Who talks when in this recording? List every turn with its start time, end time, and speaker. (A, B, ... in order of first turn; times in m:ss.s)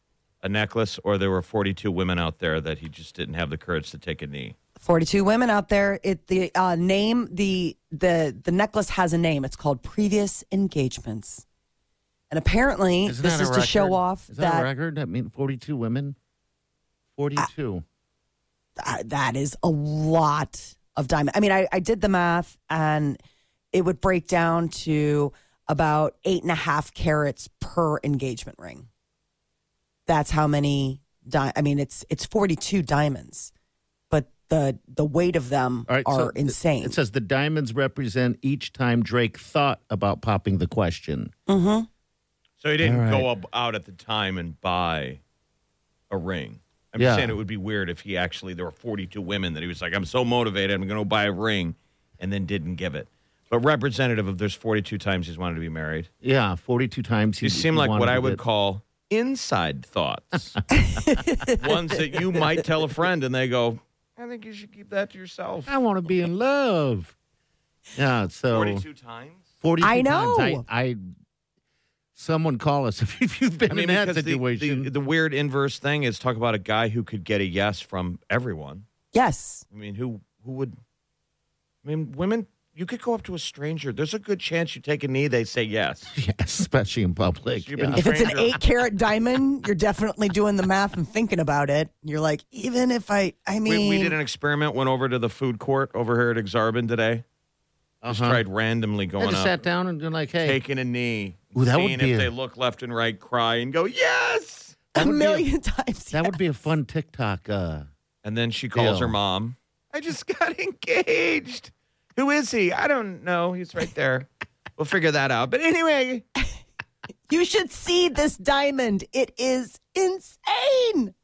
0:00.4-0:04.6 A
0:04.8-0:11.4 B
0:12.3-0:14.7 B
0:13.1-0:16.2 C
0:17.2-0:17.8 C
0:18.8-0:23.2 B
0:23.7-0:28.9 B
0:30.1-0:33.5 B
0:34.1-0:37.0 B
0:35.9-0:41.3 C
0:41.5-0:41.9 B
0:42.6-0:45.2 A
0:42.8-0:43.3 C
0:46.1-0:56.1 A
0:47.0-0:47.4 C
0:56.2-0:58.4 C
0:57.4-1:00.6 A
1:00.7-1:01.6 B
1:01.6-1:05.7 A
1:05.7-1:07.1 C
1:08.0-1:08.8 C
1:08.5-1:09.4 A
1:09.6-1:11.0 C
1:09.8-1:10.6 B
1:12.2-1:14.9 C
1:13.7-1:18.8 A
1:19.1-1:19.6 B
1:19.7-1:20.8 A
1:21.8-1:26.1 A
1:26.2-1:28.1 C
1:27.6-1:28.6 A
1:28.0-1:34.2 B
1:33.7-1:37.2 A
1:38.0-1:38.4 C
1:38.1-1:39.6 A
1:39.2-1:40.6 C
1:40.4-1:44.8 A
1:41.6-1:42.3 C
1:45.0-1:45.5 C
1:45.0-1:46.4 B
1:46.1-1:47.9 C
1:48.2-1:56.2 A
1:48.8-1:49.2 C
1:57.3-2:01.1 B